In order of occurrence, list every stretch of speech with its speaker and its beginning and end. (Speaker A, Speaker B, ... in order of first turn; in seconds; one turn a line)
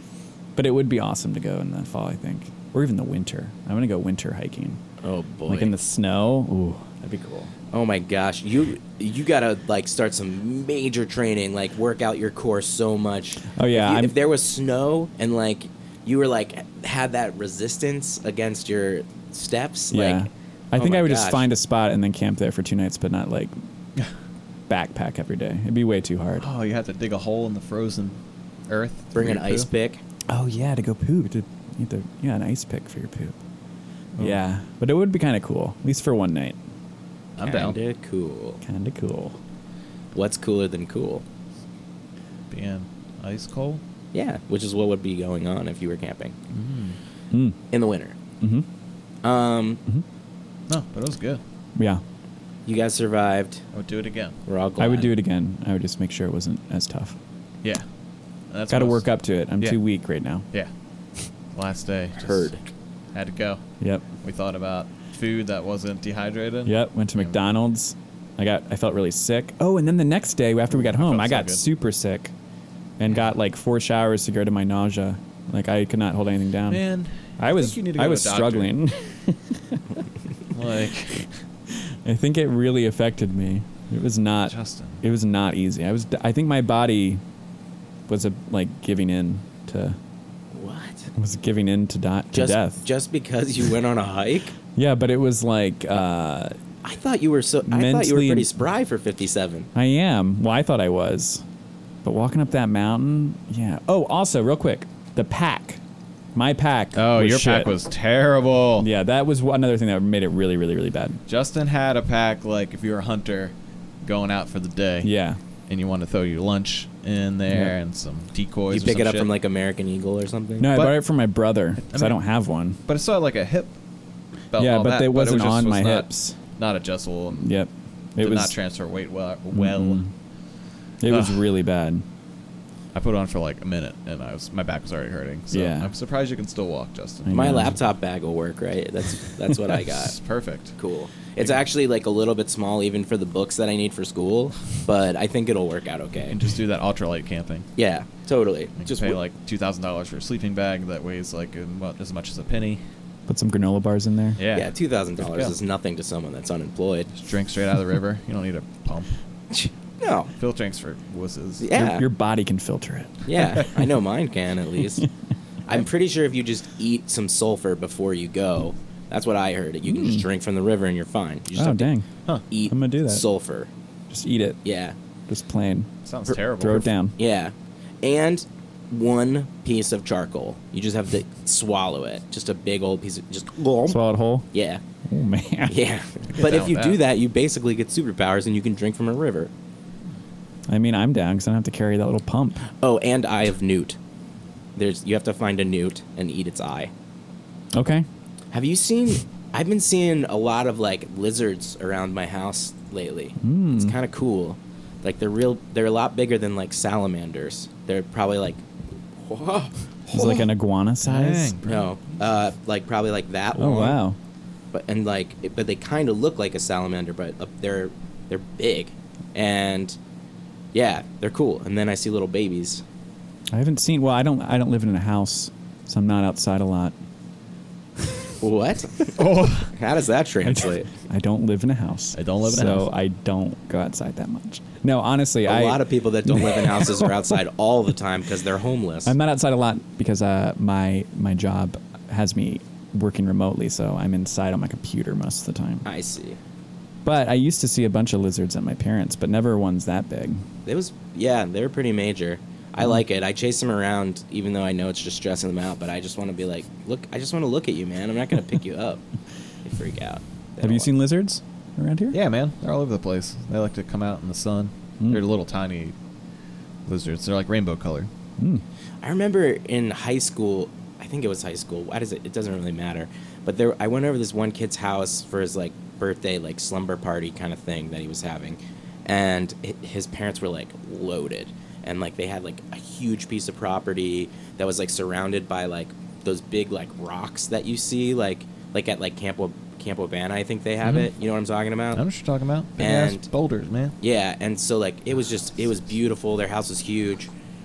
Speaker A: 0.6-4.8
Speaker B: 5.0-5.7
Speaker A: 5.5-7.5
Speaker B: 7.7-21.5
Speaker A: 13.5-14.1
Speaker A: 19.9-23.5
Speaker A: 24.7-26.5
Speaker C: 26.4-29.7
Speaker B: 29.1-30.0
Speaker A: 30.3-33.4
Speaker A: 34.2-36.6
Speaker C: 37.4-37.8
Speaker B: 37.4-38.6
Speaker A: 38.6-39.4
Speaker B: 40.1-41.2
Speaker C: 42.5-43.8
Speaker B: 44.1-46.4
Speaker C: 46.5-47.0
Speaker A: 47.3-47.6
Speaker B: 47.7-48.2
Speaker A: 48.4-48.7
Speaker B: 49.2-49.8
Speaker C: 50.7-51.4
Speaker A: 51.8-52.0
Speaker B: 52.7-53.6
Speaker C: 53.7-54.4
Speaker B: 54.5-55.1
Speaker A: 54.8-57.2
Speaker C: 58.5-59.0
Speaker A: 58.7-60.5
Speaker C: 61.5-62.5
Speaker B: 62.2-62.6
Speaker C: 63.1-63.6
Speaker A: 63.8-64.1
Speaker C: 64.2-67.3
Speaker A: 66.7-72.3
Speaker C: 70.7-71.6
Speaker A: 73.0-76.8
Speaker C: 76.7-78.8
Speaker A: 77.4-79.8
Speaker C: 80.5-81.3
Speaker A: 81.8-87.2
Speaker C: 84.5-85.0
Speaker A: 88.1-90.0
Speaker B: 90.5-91.1
Speaker A: 91.1-92.8
Speaker B: 92.3-94.5
Speaker A: 94.8-96.6
Speaker B: 96.8-99.7
Speaker A: 97.7-98.5
Speaker A: 99.8-101.4
Speaker A: 102.0-105.8
Speaker A: 106.3-107.7
Speaker C: 107.0-108.9
Speaker A: 108.8-111.2
Speaker C: 111.3-115.1
Speaker A: 115.0-115.4
Speaker C: 115.7-119.3
Speaker A: 117.5-117.7
Speaker B: 118.7-120.7
Speaker A: 120.6-122.8
Speaker C: 120.7-121.0
Speaker C: 121.9-122.2
Speaker C: 122.9-123.8
Speaker C: 124.5-127.5
Speaker A: 124.6-126.4
Speaker A: 127.4-128.5
Speaker C: 128.2-130.0
Speaker A: 129.5-130.1
Speaker A: 131.0-132.0
Speaker C: 131.1-131.4
Speaker C: 132.9-137.6
Speaker A: 135.5-135.9
Speaker A: 137.3-137.8
Speaker B: 137.3-140.2
Speaker C: 139.9-140.8
Speaker B: 140.8-146.4
Speaker C: 146.3-147.7
Speaker B: 147.8-149.2
Speaker C: 148.8-152.8
Speaker A: 153.3-154.4
Speaker C: 154.4-155.6
Speaker B: 154.5-157.1
Speaker C: 157.2-159.1
Speaker B: 159.5-160.3
Speaker C: 160.4-161.7
Speaker B: 161.6-162.1
Speaker A: 161.7-163.3
Speaker B: 163.3-165.1
Speaker B: 165.7-171.9
Speaker A: 169.9-170.3
Speaker A: 171.6-172.1
Speaker B: 172.5-173.7
Speaker A: 172.7-173.2
Speaker A: 174.1-174.6
Speaker B: 174.7-174.9
Speaker A: 175.3-175.9
Speaker C: 176.0-176.9
Speaker A: 176.6-177.2
Speaker B: 177.2-184.0
Speaker A: 183.9-184.5
Speaker B: 184.5-184.8
Speaker A: 185.1-185.8
Speaker B: 185.7-189.5
Speaker C: 186.3-187.0
Speaker A: 190.7-192.7
Speaker B: 192.8-194.0
Speaker B: 194.8-196.9
Speaker A: 197.7-198.1
Speaker B: 198.5-208.6
Speaker A: 203.4-203.9
Speaker B: 209.2-210.5
Speaker A: 210.1-211.6
Speaker C: 211.0-211.9
Speaker B: 211.7-214.0
Speaker A: 213.6-214.2
Speaker B: 214.7-220.0
Speaker B: 220.7-222.8
Speaker A: 223.5-226.9
Speaker B: 228.4-230.9
Speaker C: 229.2-229.7
Speaker A: 230.4-237.1
Speaker C: 232.2-232.9
Speaker B: 235.5-239.1
Speaker A: 239.1-245.8
Speaker B: 245.8-246.4
Speaker A: 247.1-250.5
Speaker B: 250.7-259.0
Speaker B: 259.6-260.9
Speaker A: 260.6-262.2
Speaker C: 262.1-265.9
Speaker C: 266.9-268.1
Speaker A: 268.4-268.6
Speaker B: 269.0-292.0
Speaker C: 290.8-291.1
Speaker C: 291.9-294.0
Speaker B: 292.8-293.3
Speaker B: 294.0-297.3